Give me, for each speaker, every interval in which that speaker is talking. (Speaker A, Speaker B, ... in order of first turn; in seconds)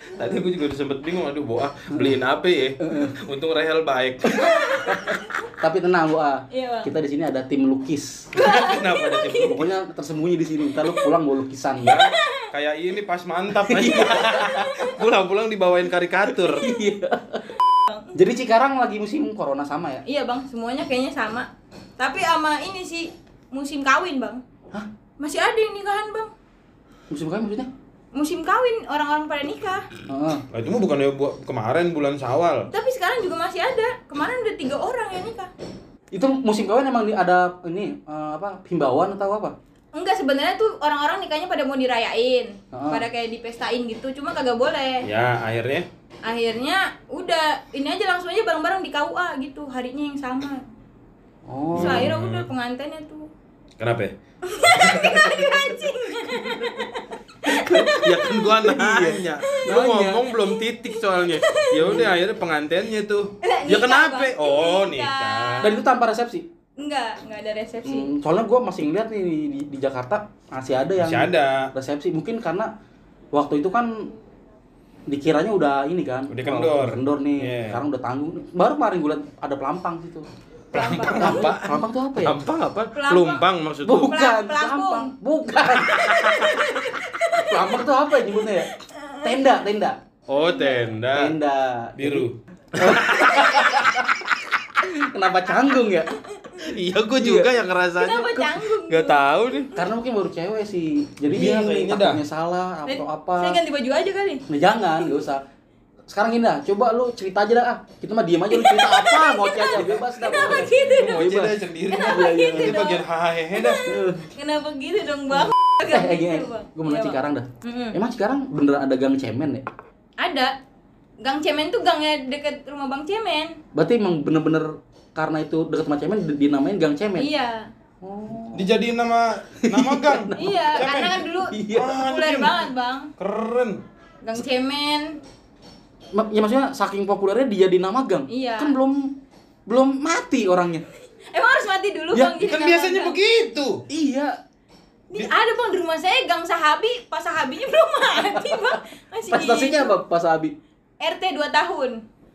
Speaker A: 0.2-4.9, 8.3-9.6, 11.8-16.7, 30.5-32.7, 45.0-45.9, 51.7-52.5, 53.8-54.1, 54.7-55.9, 57.5-65.7, 71.0-71.7, 76.3-77.8, 80.7-84.1, 85.9-86.6, 90.3-91.3, 92.0-94.1, 96.6-99.7, 101.3-102.2, 110.3-113.8, 128.5-132.7, 133.2-133.8, 142.4-143.8
Speaker B: 2.8-3.1, 4.8-8.3, 9.4-12.0, 13.6-14.9, 16.3-17.6, 18.1-20.0, 27.1-27.7, 30.1-30.4, 36.1-39.5, 42.7-43.0, 51.5-52.1, 57.5-60.2, 61.8-62.1, 65.6-66.5, 67.8-72.7, 73.3-74.1, 75.1-80.3, 81.2-82.4, 83.8-86.6, 87.3-88.7, 89.2-90.0, 91.1-94.3, 94.8-96.1, 97.2-97.5, 99.7-103.6, 104.5-105.4, 106.1-112.9, 113.8-114.3, 115.8-119.6, 123.7-127.3, 128.0-128.7, 129.6-132.0, 136.1-140.8, 142.1-142.4, 143.9-144.4, 149.3-150.5
Speaker C: 6.5-6.9, 8.3-9.6, 11.9-12.5, 17.9-18.1, 20.1-24.4, 25.2-26.3, 28.1-29.9, 32.7-35.5, 39.9-45.1, 46.2-50.6, 51.7-53.3, 54.4-57.9, 61.4-62.0, 63.4-65.8, 66.8-68.1, 80.7-81.5, 82.9-83.4, 84.0-85.1, 86.0-87.8, 88.3-89.5, 90.4-90.8, 98.0-99.2, 102.9-104.5, 108.5-111.3, 111.9-113.0, 113.5-118.0, 120.2-120.5, 121.2-123.6, 127.2-127.7, 130.3-133.1, 134.2-135.2, 138.3-138.8, 141.3-143.2, 145.1-149.9, 151.0-152.0